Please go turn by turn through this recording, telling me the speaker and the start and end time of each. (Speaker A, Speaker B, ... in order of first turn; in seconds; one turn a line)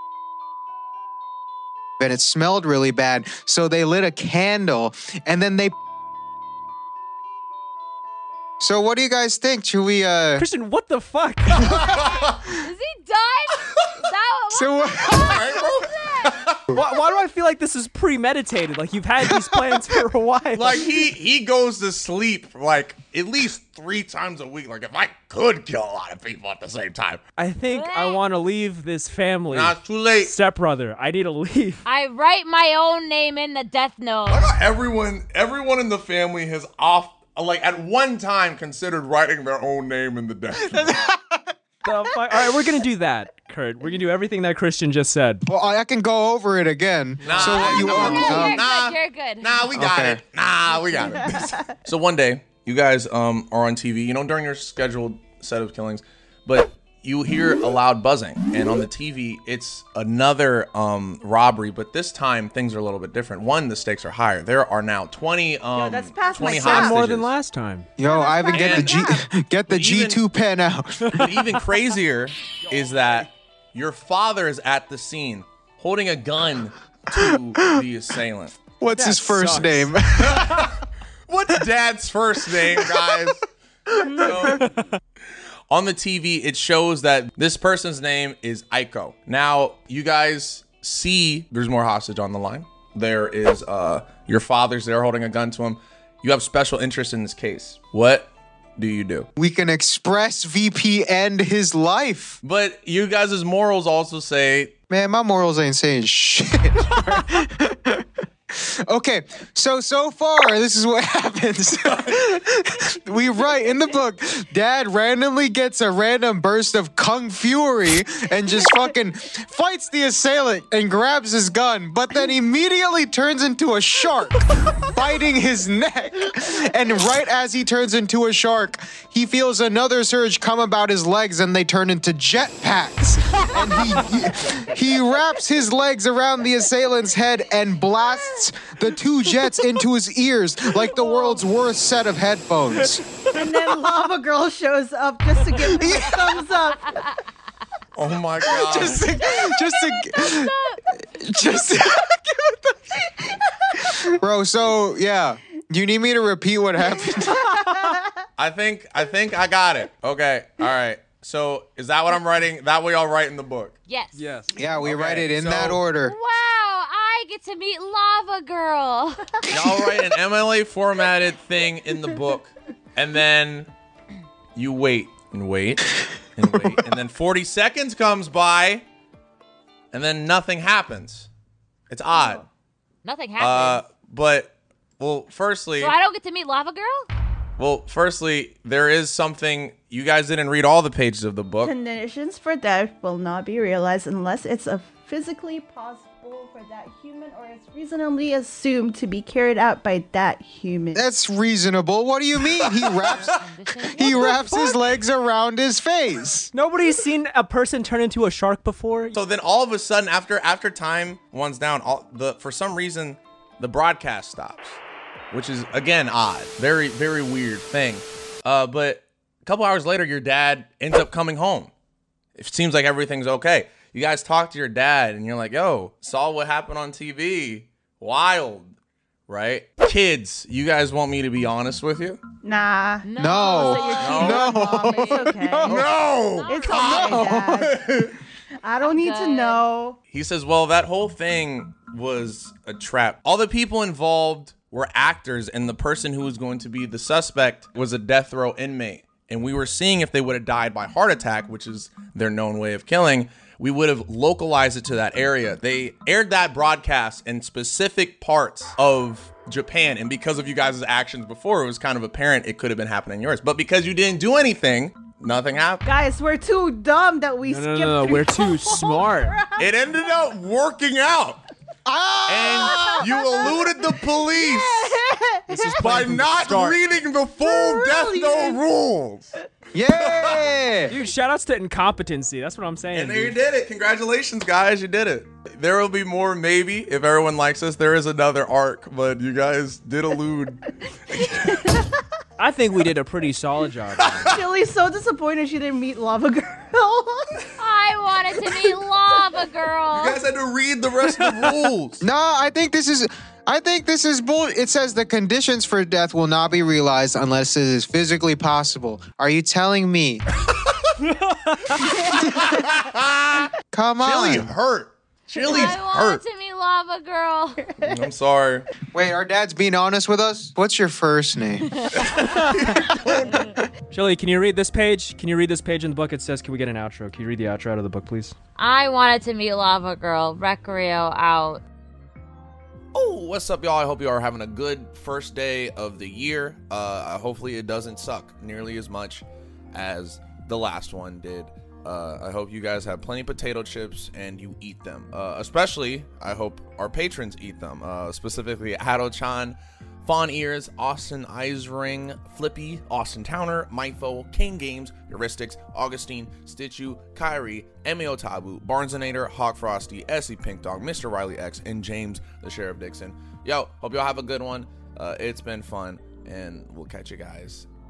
Speaker A: 2.0-5.7
Speaker A: 8.6-10.4
Speaker B: 10.4-11.7
Speaker C: 11.6-12.6
Speaker D: 11.6-16.4
Speaker A: 14.5-15.4
Speaker C: 15.1-16.6
Speaker B: 16.7-20.9
Speaker C: 20.5-27.2
Speaker B: 27.4-31.8
Speaker D: 27.7-28.2
Speaker C: 29.5-30.3
Speaker D: 31.8-34.5
Speaker C: 34.3-41.0
Speaker A: 40.5-41.5
Speaker B: 41.8-45.4
Speaker A: 45.5-48.6
Speaker C: 47.2-67.3
Speaker D: 47.4-49.6
Speaker A: 49.7-50.2
Speaker E: 51.0-51.5
Speaker E: 65.7-67.0
Speaker B: 66.4-67.9
Speaker A: 68.0-71.3
Speaker E: 68.0-69.2
Speaker C: 68.5-69.0
Speaker C: 69.7-70.2
Speaker C: 71.1-78.5
Speaker A: 77.1-77.8
Speaker A: 78.8-80.6
Speaker B: 78.9-79.9
Speaker C: 80.2-83.4
Speaker A: 82.7-83.3
Speaker A: 83.9-84.5
Speaker C: 84.0-84.7
Speaker B: 84.5-84.8
Speaker C: 85.7-99.3
Speaker A: 99.3-102.4
Speaker C: 102.4-104.7
Speaker A: 104.9-143.0
Speaker C: 111.8-112.2
Speaker B: 139.4-139.7
Speaker B: 142.8-143.6
Speaker E: 143.3-147.1
Speaker A: 145.8-146.2
Speaker C: 147.9-149.1
Speaker A: 148.4-153.0
Speaker D: 149.2-150.8
Speaker A: 154.1-157.5
Speaker E: 157.3-158.1
Speaker C: 158.4-163.8
Speaker D: 163.9-164.2
Speaker B: 164.1-164.5
Speaker A: 164.5-166.2
Speaker C: 164.8-165.8
Speaker D: 166.0-169.3
Speaker C: 169.5-173.7
Speaker C: 174.6-178.8
Speaker C: 179.9-181.3
Speaker C: 181.9-182.4
Speaker D: 183.0-183.8
Speaker C: 183.4-185.9
Speaker D: 185.8-187.1
Speaker C: 187.6-191.7
Speaker E: 191.6-201.0
Speaker A: 200.9-206.5
Speaker D: 203.0-204.7
Speaker B: 206.5-209.2
Speaker C: 209.1-221.7
Speaker C: 222.3-228.7
Speaker C: 229.3-232.2
Speaker E: 232.4-235.8
Speaker D: 233.0-237.2
Speaker A: 233.2-235.9
Speaker C: 234.0-234.5
Speaker C: 235.6-238.1
Speaker E: 236.5-237.8
Speaker A: 236.8-237.6
Speaker E: 238.6-240.0
Speaker D: 238.8-239.6
Speaker C: 240.1-265.8
Speaker E: 265.8-269.7
Speaker B: 267.4-269.4
Speaker C: 269.6-271.4
Speaker A: 271.8-273.0
Speaker C: 272.3-275.0
Speaker E: 272.6-273.8
Speaker E: 274.3-275.8
Speaker B: 275.5-276.8
Speaker C: 275.8-279.4
Speaker E: 277.4-278.6
Speaker A: 279.7-280.9
Speaker C: 279.9-280.5
Speaker B: 280.9-283.4
Speaker C: 282.9-291.6
Speaker E: 291.4-291.8
Speaker B: 292.4-294.4
Speaker C: 294.0-294.4
Speaker E: 294.2-297.5
Speaker D: 297.6-300.2
Speaker C: 299.9-302.0
Speaker A: 302.0-310.2
Speaker C: 310.6-310.9
Speaker B: 311.1-311.8
Speaker C: 311.8-316.2
Speaker A: 313.7-314.5
Speaker D: 315.3-317.7
Speaker C: 317.8-318.7
Speaker A: 318.9-321.8
Speaker C: 321.9-323.5
Speaker B: 322.2-322.9
Speaker B: 323.9-328.3
Speaker D: 328.6-331.6
Speaker C: 332.9-367.7